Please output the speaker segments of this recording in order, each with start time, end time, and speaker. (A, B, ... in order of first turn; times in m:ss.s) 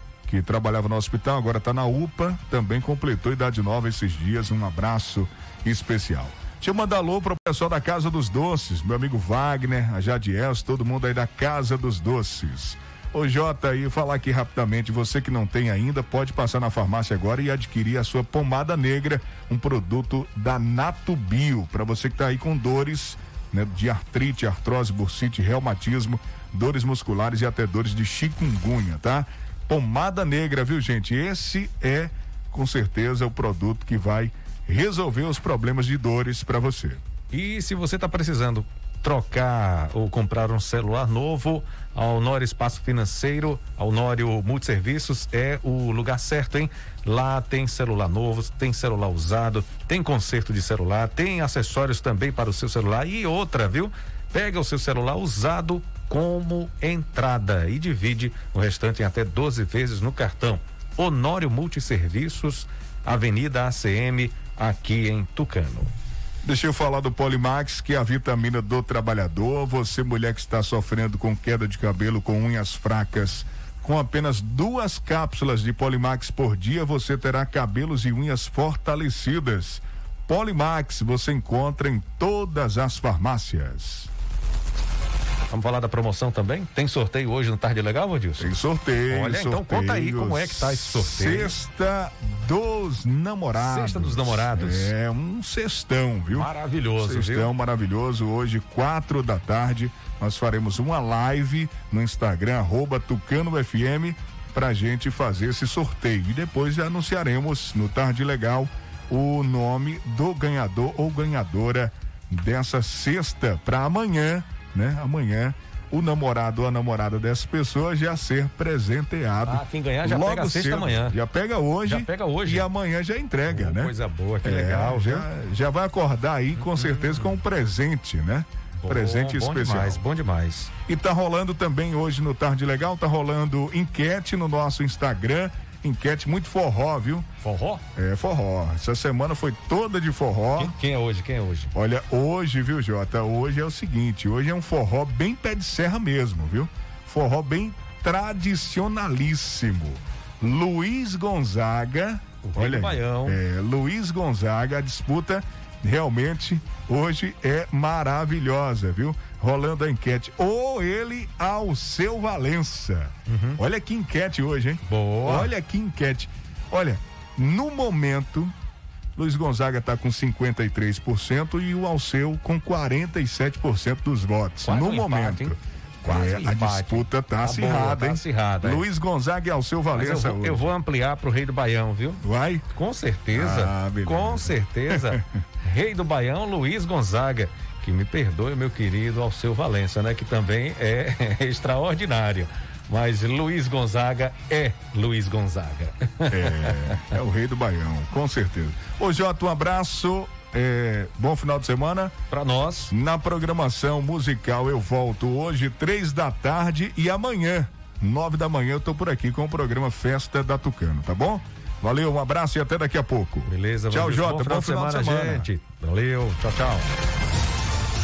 0:00.3-0:37.0 A
0:37.3-1:05.9 B
1:06.4-1:24.1 A
1:25.5-1:28.6 B
1:28.4-2:03.9 A
1:29.1-1:31.5 B
1:33.6-1:34.9 B
1:36.3-1:37.5 B
1:59.5-2:01.2 B
2:01.9-2:02.7 B
2:03.5-2:05.2 B
2:04.4-2:10.0 A
2:06.6-2:07.4 B
2:08.8-2:10.7 B
2:10.9-2:17.3 A
2:17.4-2:17.8 B
2:18.0-2:20.7 A
2:20.6-2:21.7 B
2:21.7-2:48.5 A
2:32.4-2:33.4 B
2:43.3-2:43.6 B
2:44.9-2:45.5 B
2:49.2-3:00.7 A
2:54.6-2:58.8 B
2:59.9-3:02.2 B
3:02.2-3:02.6 A
3:02.7-3:16.8 B
3:03.3-3:05.3 A
3:16.3-3:22.1 A
3:22.3-3:22.9 B
3:22.9-3:35.5 A
3:33.5-3:36.9 B